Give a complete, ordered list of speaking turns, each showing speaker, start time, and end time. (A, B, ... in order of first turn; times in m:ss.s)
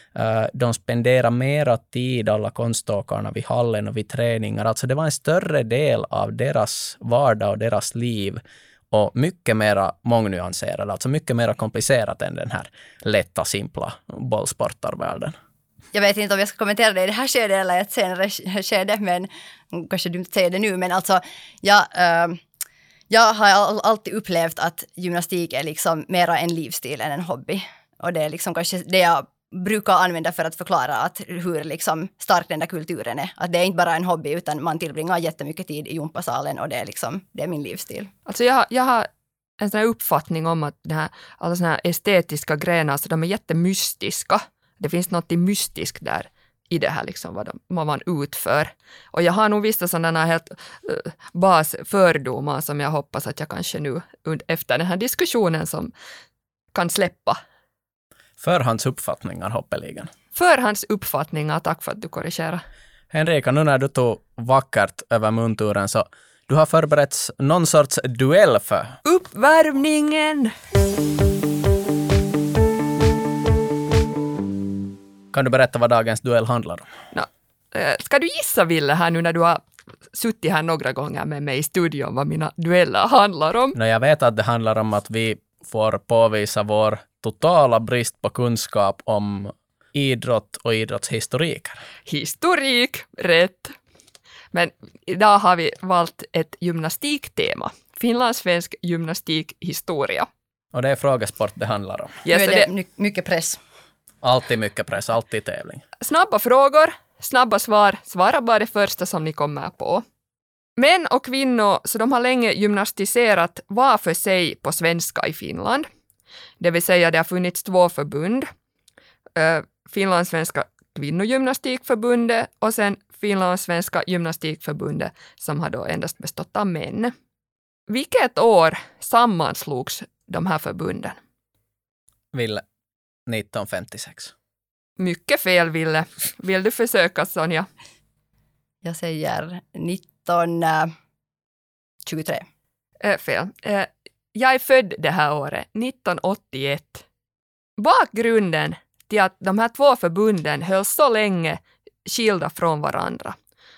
0:00.1-0:08.4 A
0:08.9-0:15.3 A
0:15.9-0:22.4 B
0:23.1-0:38.1 B
0:38.2-0:39.1 C
0:39.6-0:55.9 C
0:56.7-0:57.4 C
0:58.4-1:00.1 A
1:00.3-1:02.6 C
1:03.1-1:09.0 A
1:09.0-1:10.5 C
1:15.3-1:16.9 A
1:17.1-1:23.7 C
1:23.7-1:31.8 A
1:32.1-1:33.7 C
1:34.5-1:40.3 C
1:40.7-1:42.2 A
1:42.2-1:42.7 C
1:42.3-1:43.6 B
1:44.2-1:45.8 A
1:46.0-1:50.0 C
1:50.8-1:55.9 C
1:56.6-1:58.5 C
1:59.4-2:07.1 C
2:07.9-2:11.2 C
2:12.3-2:12.6 A
2:13.3-2:14.3 A
2:15.0-2:17.7 C
2:18.8-2:20.9 B
2:22.0-2:22.4 B
2:23.0-2:27.0 C
2:27.8-2:33.4 C